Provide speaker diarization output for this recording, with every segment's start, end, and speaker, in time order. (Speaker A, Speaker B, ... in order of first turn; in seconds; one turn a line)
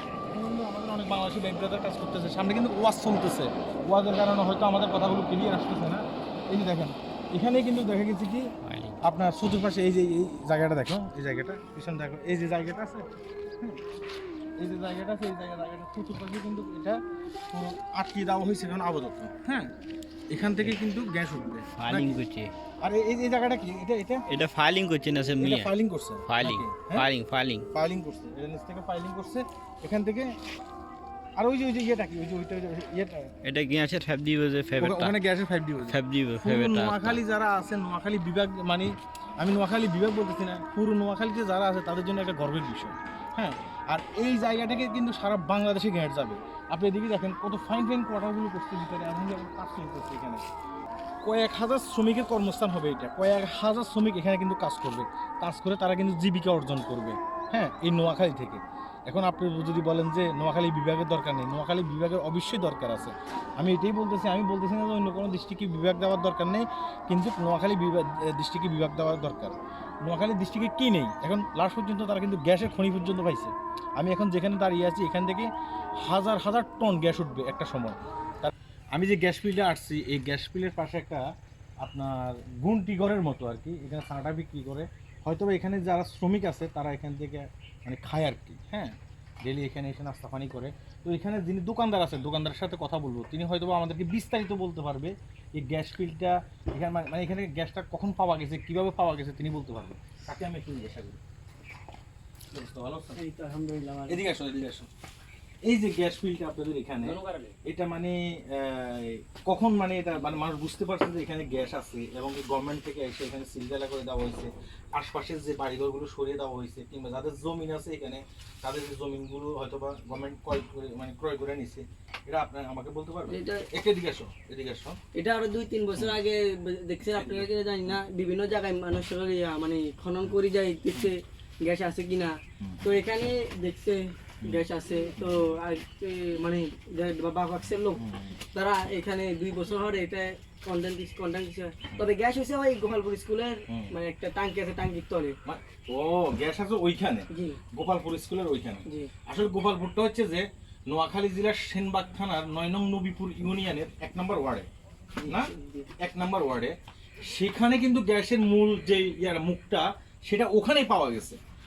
Speaker A: 0.3-13.1
Speaker B: 8.6-9.0
Speaker A: 14.6-17.0
Speaker A: 17.5-19.7
Speaker A: 20.3-22.2
Speaker B: 21.8-22.5
Speaker A: 22.8-24.2
Speaker B: 24.3-25.7
Speaker A: 25.4-27.1
Speaker B: 26.3-27.7
Speaker A: 27.7-30.4
Speaker A: 31.4-33.3
Speaker B: 33.4-35.1
Speaker A: 34.8-50.4
Speaker B: 35.8-37.2
Speaker A: 51.2-75.5
Speaker A: 76.0-81.3
Speaker A: 81.8-101.2
Speaker A: 102.5-103.2
Speaker C: 103.1-104.2
Speaker A: 104.1-104.9
Speaker A: 105.6-125.0
Speaker C: 107.0-107.5
Speaker C: 123.3-123.6
Speaker C: 125.1-145.4
Speaker A: 127.1-128.0
Speaker A: 132.6-132.9
Speaker A: 135.2-135.5
Speaker A: 137.9-138.4
Speaker A: 145.4-154.7
Speaker C: 147.3-147.6
Speaker A: 155.2-161.4
Speaker C: 155.3-155.9